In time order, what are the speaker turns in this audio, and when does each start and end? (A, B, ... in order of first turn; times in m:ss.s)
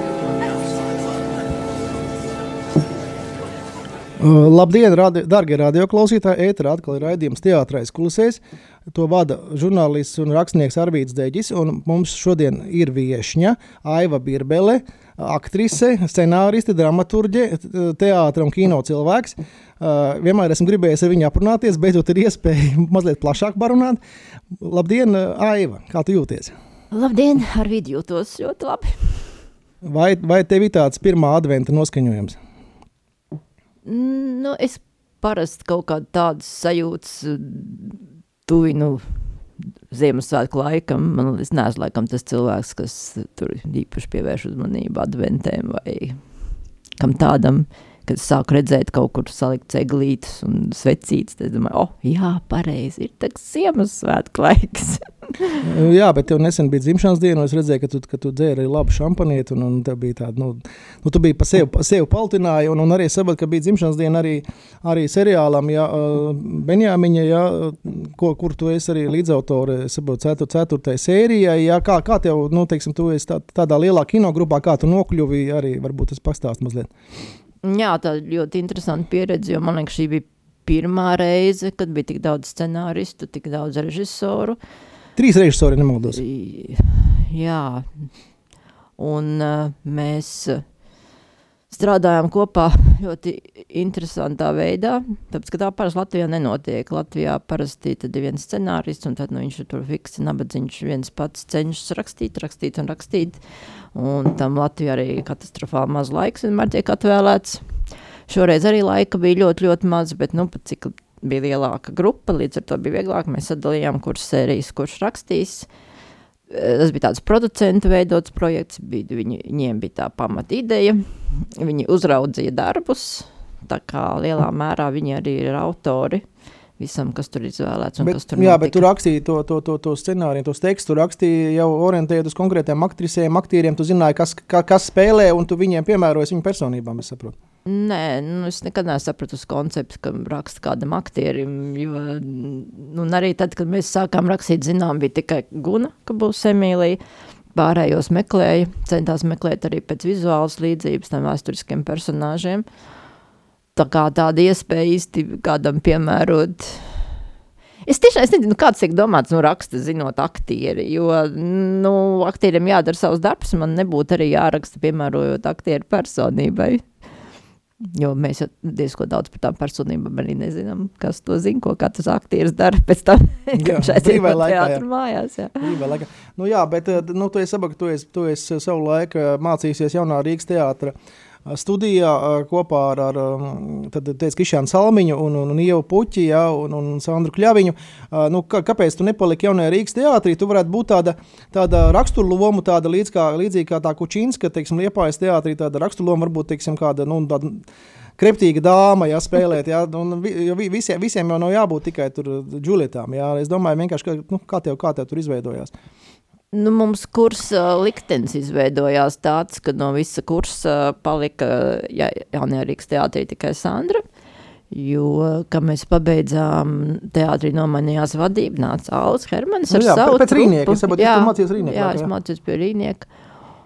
0:04.2-0:24.0 A
0:24.6-0:26.5 A
0:26.9-0:29.4 B
0:29.8-0:32.4 A
0:33.8-0:39.1 B
0:39.9-0:46.2 B
0:47.0-0:55.7 B
0:55.6-1:16.9 A
1:17.6-1:24.6 B
1:25.2-1:26.2 A
1:26.1-1:28.1 B
1:29.0-1:30.6 B
1:31.7-1:43.4 B
1:43.9-1:47.8 B
1:48.3-1:55.7 B
1:56.5-2:06.2 B
2:06.8-2:08.9 B
2:08.0-2:17.4 A
2:17.7-2:27.0 B
2:27.5-2:32.7 B
2:33.8-2:37.2 B
2:37.9-2:46.9 B
2:47.8-2:55.8 B
2:53.5-2:54.8 A
2:55.6-3:00.9 A
3:01.5-3:17.7 A
3:18.2-3:25.7 A
3:26.5-3:34.0 B
3:34.7-3:43.1 B
3:39.7-3:42.1 A